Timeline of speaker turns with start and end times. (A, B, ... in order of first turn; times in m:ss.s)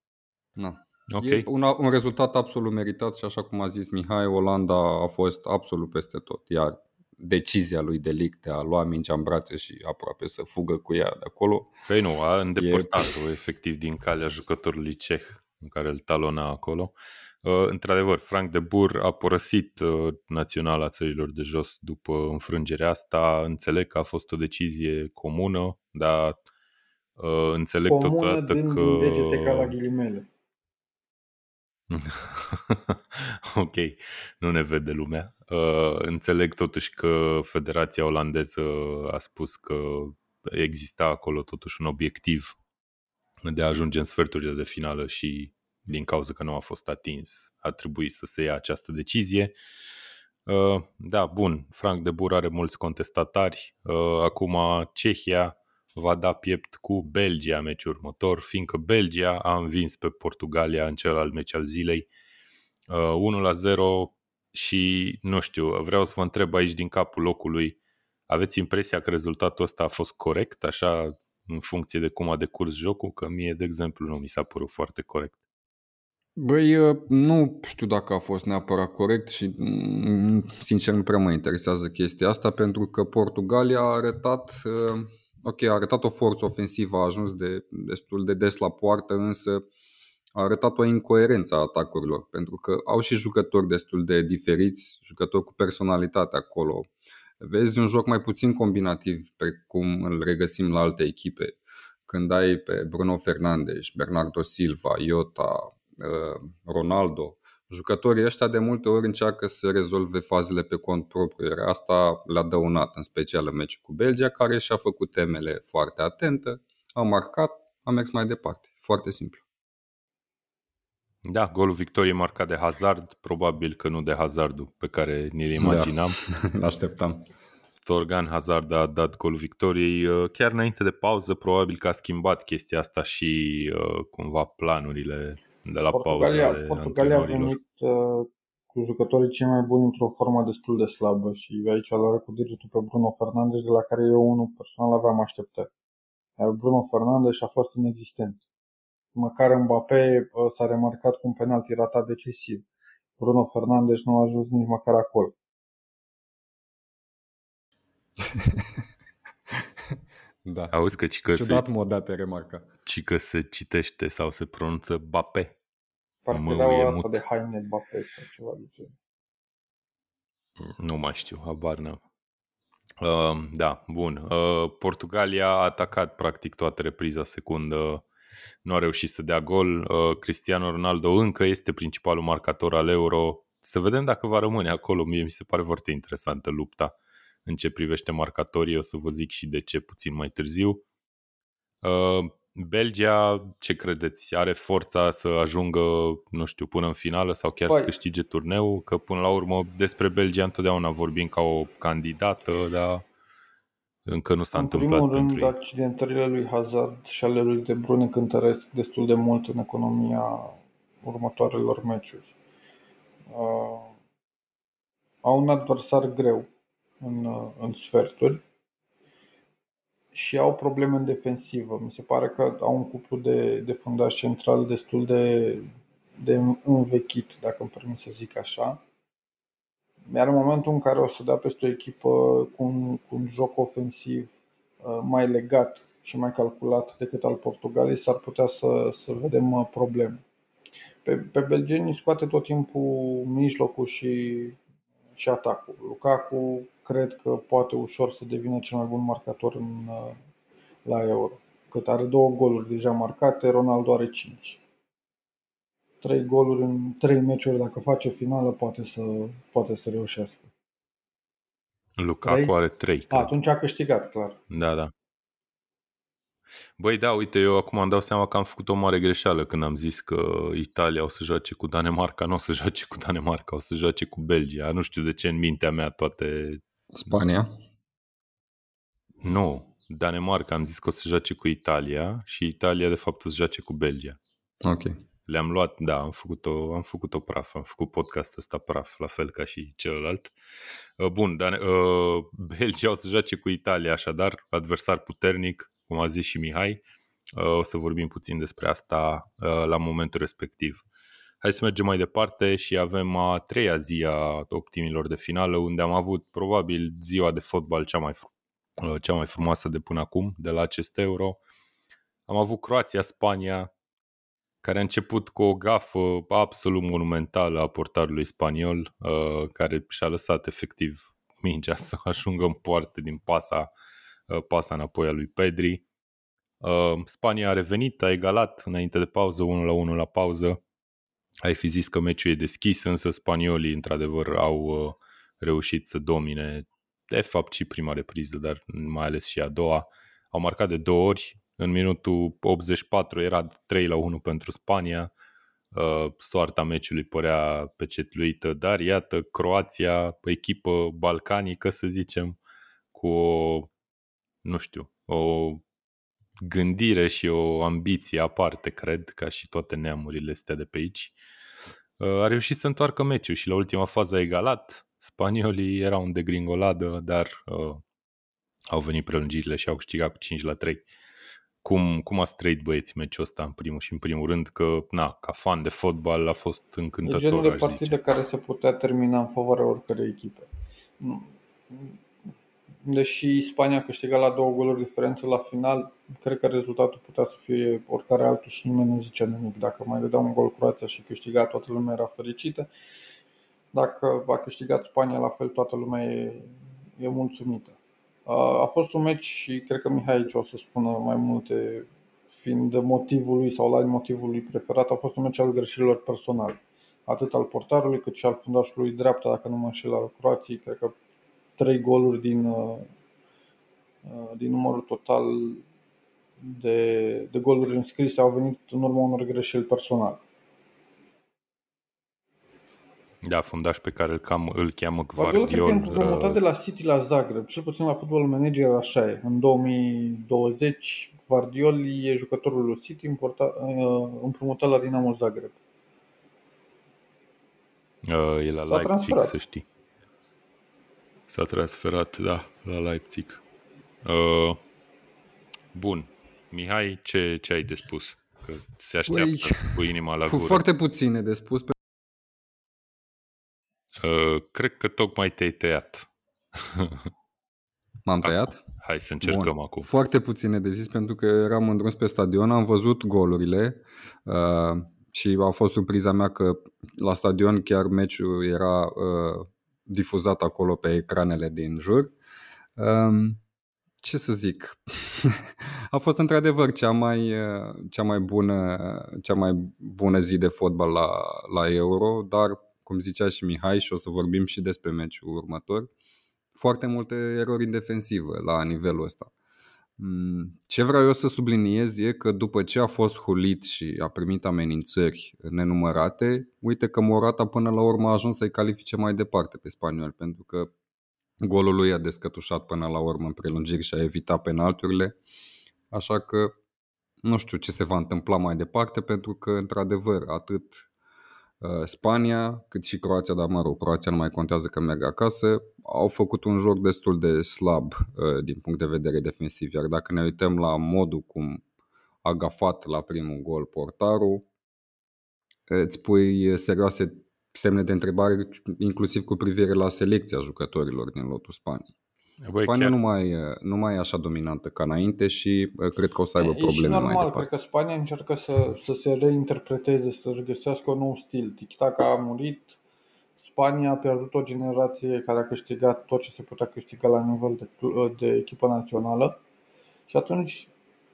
0:00.6-0:11.7 A
0:01.1-0:01.5 B
0:11.9-0:26.4 B
0:12.6-0:13.0 A
0:27.2-0:29.7 B
0:27.9-0:30.3 C
0:31.9-0:42.6 B
0:43.4-0:49.6 B
0:50.5-1:02.1 B
1:02.9-1:07.8 B
1:08.3-1:15.4 B
1:16.4-1:29.6 A
1:30.4-1:36.9 A
1:37.4-1:59.4 A
2:01.3-2:06.2 B
2:05.6-2:07.3 A
2:07.8-2:17.6 B
2:15.9-2:25.7 C
2:26.4-2:28.4 C
2:29.2-2:32.7 C
2:33.2-2:35.3 C
2:38.2-2:38.8 A
2:40.4-2:40.7 A
2:40.7-2:41.6 B
2:41.3-2:42.7 A
2:42.9-2:45.6 B
2:46.3-2:48.9 C
2:46.3-2:47.2 B
2:50.6-2:52.0 B
2:53.0-2:58.0 B
2:58.6-3:06.9 B
3:07.5-3:10.8 B
3:11.8-3:23.0 B
3:24.1-3:25.5 B
3:24.6-3:32.3 C
3:33.3-3:33.9 C
3:35.2-3:36.5 C
3:37.0-3:38.4 C
3:40.1-3:45.7 C
3:46.2-3:48.8 C
3:50.1-3:54.3 C
3:54.8-4:00.2 C
4:01.0-4:04.6 C
4:05.2-4:10.2 C
4:10.9-4:14.6 C
4:16.0-4:20.5 C
4:22.0-4:23.3 B
4:22.2-4:22.5 C
4:23.1-4:24.4 C
4:24.5-4:24.9 B
4:26.8-4:36.6 B
4:36.9-4:37.5 A
4:39.2-4:44.2 B
4:44.6-4:45.0 A
4:45.3-4:50.3 B
4:51.0-4:56.8 B
4:57.3-5:00.8 B
5:01.4-5:11.4 B
5:12.3-5:13.7 B
5:14.6-5:23.7 B
5:24.3-5:25.8 B
5:26.6-5:30.6 B
5:31.4-5:45.1 B
5:45.7-5:52.4 B
5:52.9-5:53.7 B
5:54.4-5:55.6 B
5:56.4-6:01.1 B
6:02.0-6:07.8 B
6:08.7-6:10.8 B
6:11.6-6:18.0 B
6:17.0-6:20.5 C
6:21.0-6:22.0 C
6:22.8-6:32.7 C
6:33.7-6:51.0 C
6:51.6-6:52.9 C
6:54.0-6:55.6 C
6:56.4-7:00.2 C
7:03.2-7:06.4 B
7:05.2-7:15.6 C
7:18.0-7:19.6 B
7:18.7-7:19.4 C
7:21.3-7:23.4 B
7:24.0-7:24.6 B
7:25.7-7:30.6 B
7:29.1-7:31.8 A
7:34.0-7:37.1 B
7:38.0-7:38.6 A
7:38.2-7:39.9 B
7:39.2-7:52.1 A
7:52.8-7:53.4 A
7:54.0-8:05.9 A
8:06.6-8:09.3 A
8:10.0-8:20.7 A
8:21.4-8:25.2 A
8:25.9-8:26.5 A
8:27.2-8:30.9 A
8:31.6-8:41.6 A
8:42.2-8:44.5 A
8:45.7-8:51.9 A
8:52.4-8:53.0 B
8:52.6-8:57.5 A
8:56.4-9:02.8 C
9:03.4-9:09.4 C
9:10.1-9:10.7 C